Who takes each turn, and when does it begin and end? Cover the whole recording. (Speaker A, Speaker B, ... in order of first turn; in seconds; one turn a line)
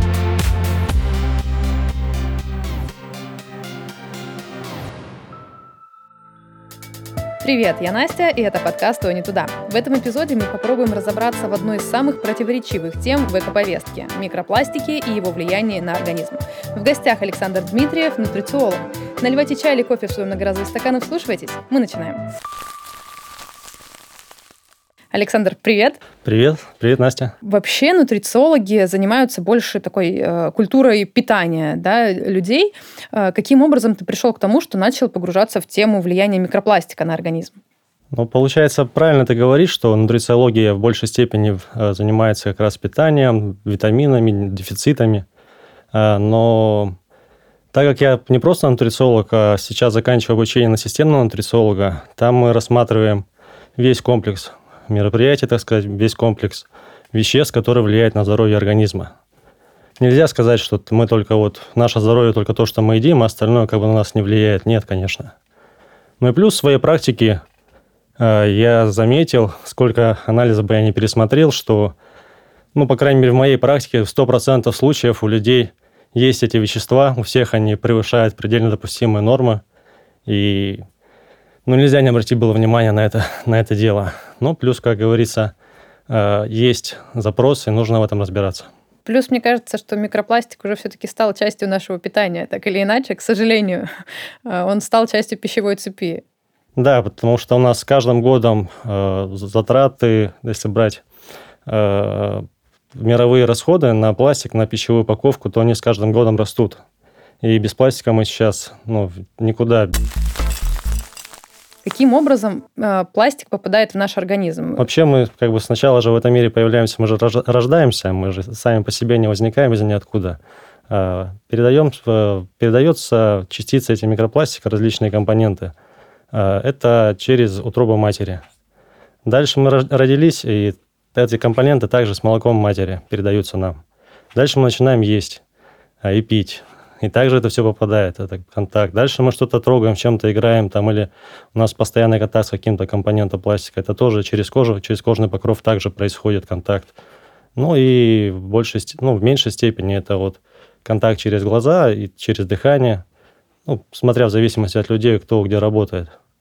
Speaker A: 7.4-22.2
Speaker A: 25.1-26.0
Speaker B: 26.2-27.3
Speaker A: 27.4-37.6
Speaker B: 38.1-45.2
Speaker B: 45.9-46.9
Speaker B: 47.7-53.2
Speaker B: 53.8-59.1
Speaker B: 60.0-65.3
Speaker B: 66.2-67.4
Speaker B: 68.2-71.9
Speaker B: 72.7-79.6
Speaker B: 80.2-80.8
Speaker B: 81.7-85.5
Speaker B: 86.1-88.7
Speaker A: 89.0-93.8
Speaker A: 94.5-96.2
Speaker B: 96.8-101.0
Speaker B: 101.7-106.8
Speaker B: 107.4-109.9
Speaker A: 111.8-114.9
Speaker B: 114.8-125.7
Speaker B: 126.3-128.4
Speaker B: 129.2-133.8
Speaker B: 134.3-135.4
Speaker B: 136.0-146.9
Speaker B: 147.6-153.0
Speaker B: 153.7-156.1